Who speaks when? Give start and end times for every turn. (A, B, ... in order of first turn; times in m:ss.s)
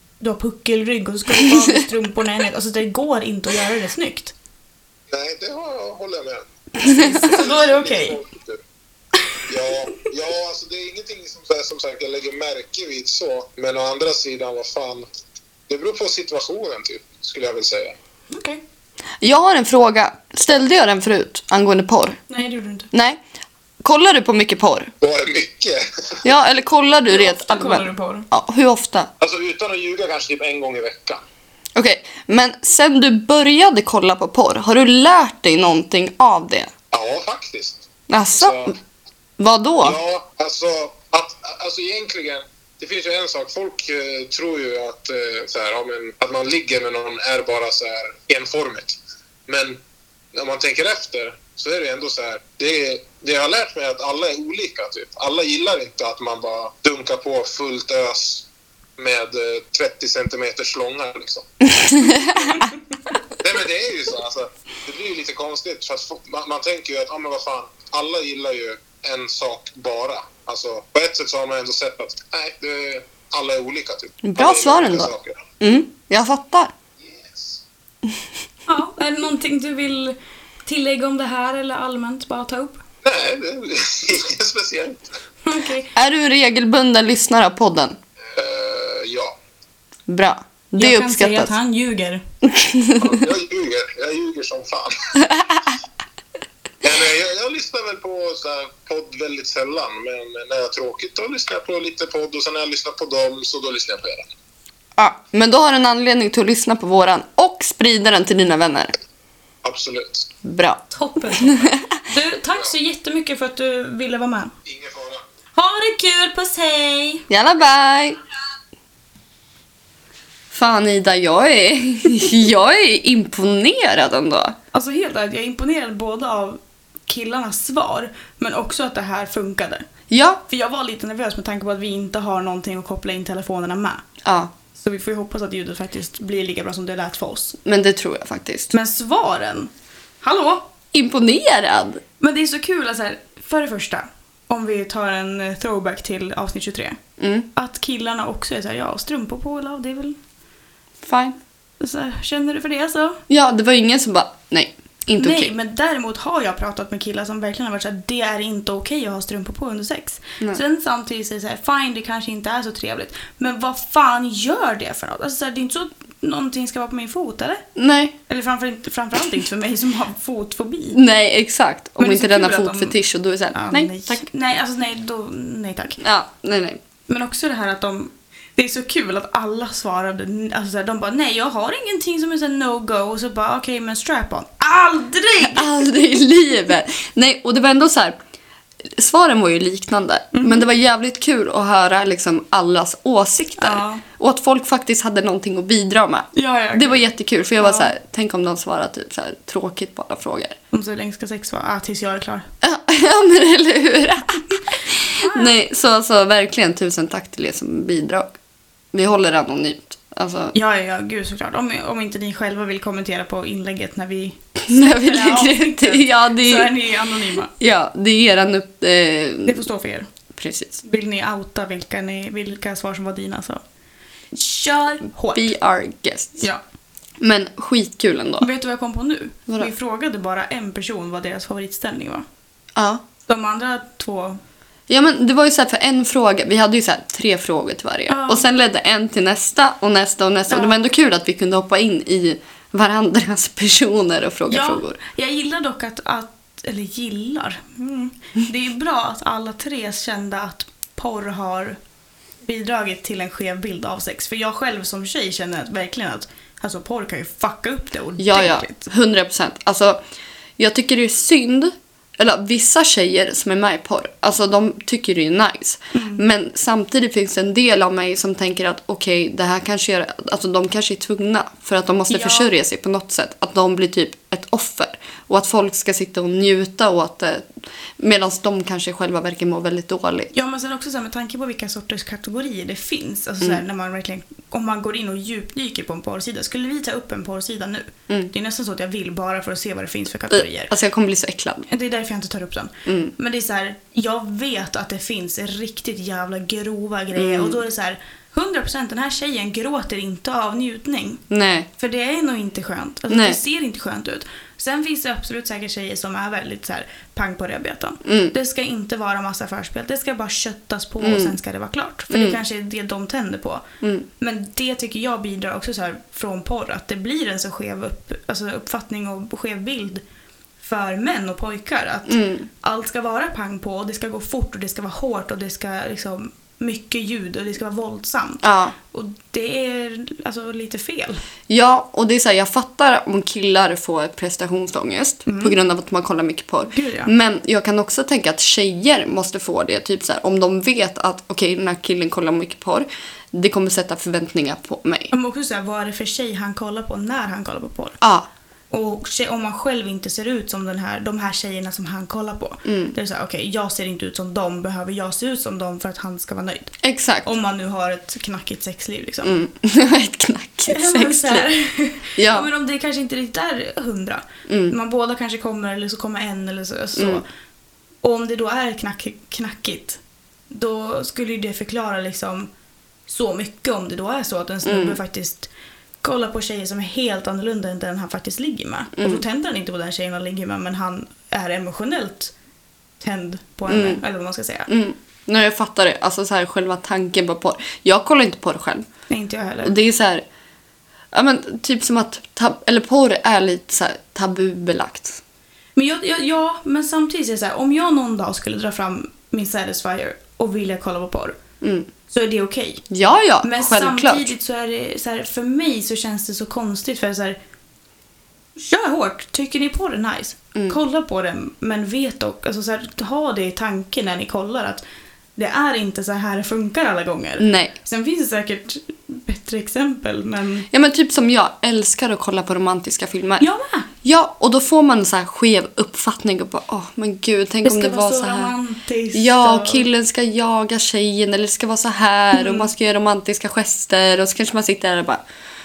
0:00.2-0:04.3 A
0:05.1-0:08.6 B
0:06.9-0:07.2 C
0:06.9-0:08.2 A
0:09.5-0:15.1 B
0:15.7-0:18.0 B
0:18.3-0:18.6 A
0:19.2-0:22.2 C
0:22.3-0:22.9 A
0:22.9-0:23.2 C
0:23.8-0:24.9 C
0:25.0-0:26.2 B
0:26.2-0:29.1 C
0:27.1-0:28.3 A
0:29.2-0:31.2 B
0:31.8-0:36.7 C
0:36.9-0:37.8 B
0:38.1-0:38.7 C
0:38.4-0:38.8 B
0:39.4-0:40.0 C
0:39.8-0:49.8 B
0:50.3-0:58.5 B
0:59.0-1:02.6 B
1:01.9-1:02.5 C
1:03.4-1:15.4 B
1:14.2-1:16.7 C
1:17.0-1:17.6 B
1:18.7-1:22.8 A
1:23.0-1:25.1 B
1:25.4-1:25.9 A
1:26.0-1:28.0 C
1:28.3-1:29.4 B
1:30.1-1:31.5 C
1:30.8-1:32.2 A
1:32.4-1:33.2 C
1:33.0-1:34.9 B
1:36.8-1:44.3 B
1:45.0-1:48.9 C
1:49.6-1:50.3 B
1:50.4-1:51.8 C
1:50.9-1:54.5 A
1:54.6-1:55.2 B
1:55.6-1:57.2 A
1:57.3-1:58.2 C
2:00.5-2:04.6 C
2:04.7-2:09.9 A
2:10.1-2:10.4 C
2:10.5-2:14.0 A
2:14.2-2:14.5 C
2:14.8-2:17.6 A
2:17.6-2:18.7 C
2:18.7-2:19.7 A
2:20.2-2:20.7 A
2:20.9-2:22.0 C
2:22.2-2:27.0 A
2:27.2-2:27.5 C
2:27.6-2:30.2 A
2:31.0-2:31.4 C
2:31.8-2:33.2 A
2:33.3-2:35.5 C
2:35.2-2:47.6 A
2:47.8-2:48.2 C
2:48.3-2:51.0 A
2:50.9-2:54.2 C
2:52.0-2:53.0 A
2:53.5-2:56.0 A
2:56.0-2:56.8 C
2:57.1-3:05.8 A
3:05.4-3:08.2 C
3:09.0-3:20.6 C
3:10.3-3:10.7 A
3:13.6-3:14.0 A
3:16.4-3:17.0 A
3:17.6-3:17.9 A
3:20.7-3:22.4 A
3:22.6-3:28.3 C
3:25.2-3:25.5 A
3:28.9-3:30.6 C
3:30.5-3:37.5 A
3:34.6-3:36.7 C
3:37.6-3:39.6 C
3:39.4-3:40.1 A
3:40.4-3:40.8 C
3:40.8-3:43.6 A
3:44.3-3:45.5 A
3:45.3-3:46.4 C
3:47.2-3:48.5 C
3:48.4-3:52.2 A
3:52.8-3:53.0 C
3:53.3-3:54.4 A
3:54.9-4:05.0 C
3:58.1-3:58.4 A
4:00.5-4:00.8 A
4:04.5-4:11.8 A
4:12.4-4:18.9 A
4:18.2-4:20.0 C
4:20.6-4:40.3 C
4:25.9-4:26.2 A
4:32.1-4:32.5 A
4:40.3-4:50.7 A
4:50.3-4:51.7 C
4:51.7-5:01.2 A
4:52.9-4:53.1 C
4:57.2-4:57.6 C
5:01.3-5:01.7 C
5:01.8-5:13.6 A
5:03.1-5:03.4 C
5:08.0-5:08.3 C
5:11.0-5:11.4 C
5:12.1-5:12.4 C
5:14.2-5:20.0 A
5:20.6-5:31.2 A
5:22.1-5:22.5 C
5:28.4-5:28.8 C
5:31.5-5:45.1 C
5:35.3-5:35.6 A
5:36.7-5:37.1 A
5:45.1-5:48.0 A
5:48.0-5:48.3 C
5:48.7-5:56.7 A
5:52.6-5:53.0 C
5:56.8-5:57.3 C
5:57.2-5:59.4 A
5:59.2-6:01.5 C
6:00.7-6:07.2 A
6:02.2-6:02.5 C
6:04.5-6:04.8 C
6:07.0-6:07.2 C
6:08.0-6:10.0 A
6:10.5-6:12.5 A
6:13.1-6:15.5 A
6:14.6-6:15.0 C
6:16.0-6:22.3 A
6:19.0-6:19.2 C
6:23.0-6:24.7 A
6:23.7-6:24.0 C
6:24.7-6:28.9 C
6:29.1-6:29.8 A
6:29.6-6:30.2 C
6:31.1-6:35.2 C
6:35.8-6:41.4 A
6:41.6-6:41.9 C
6:42.1-6:42.8 A
6:42.9-6:44.3 C
6:43.4-6:47.4 A
6:48.6-6:54.8 A
6:55.4-7:00.7 A
6:57.4-6:57.8 C
7:00.7-7:03.5 C
7:03.4-7:03.9 A
7:04.0-7:08.5 C
7:07.6-7:09.9 A
7:09.1-7:15.2 C
7:12.3-7:12.7 A